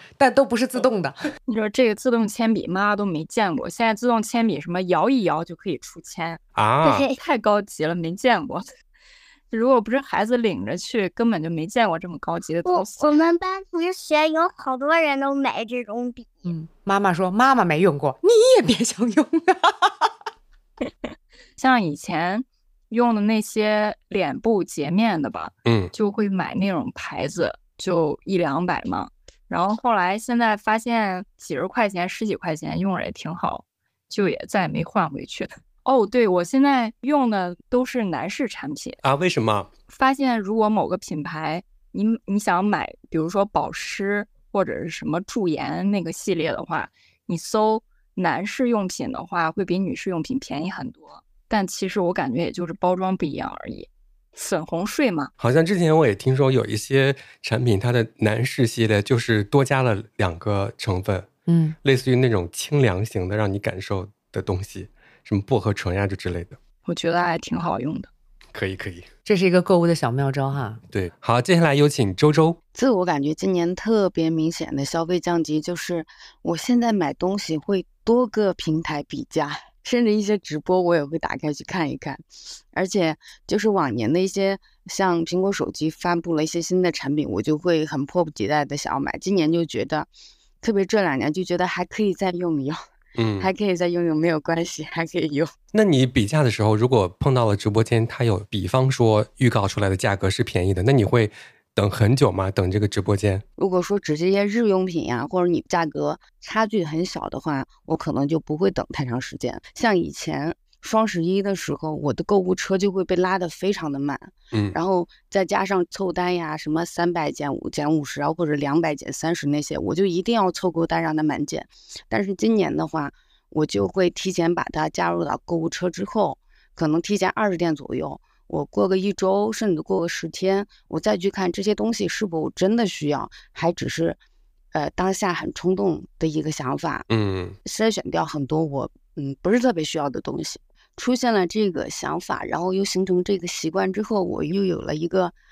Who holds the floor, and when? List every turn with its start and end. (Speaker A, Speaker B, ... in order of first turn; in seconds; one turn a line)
Speaker A: 0.2-1.2
Speaker B: 1.5-6.4
Speaker C: 6.5-7.0
Speaker D: 6.8-7.2
Speaker B: 7.1-8.6
Speaker B: 9.5-13.1
Speaker D: 12.6-16.4
Speaker A: 16.4-20.1
Speaker B: 21.6-39.0
Speaker C: 25.6-25.9
Speaker C: 39.0-39.7
Speaker B: 39.9-55.3
Speaker C: 55.4-61.3
Speaker A: 61.5-61.8
Speaker C: 61.8-66.6
Speaker B: 66.8-68.1
Speaker C: 68.5-69.1
Speaker A: 69.2-70.8
Speaker C: 70.9-72.6
Speaker E: 72.7-90.1
Speaker E: 90.6-92.8
Speaker C: 93.2-93.5
Speaker E: 93.4-95.5
Speaker C: 95.7-103.4
Speaker E: 103.6-134.2
Speaker C: 114.5-114.8
Speaker E: 134.7-137.1
Speaker C: 137.1-137.6
Speaker E: 137.6-145.3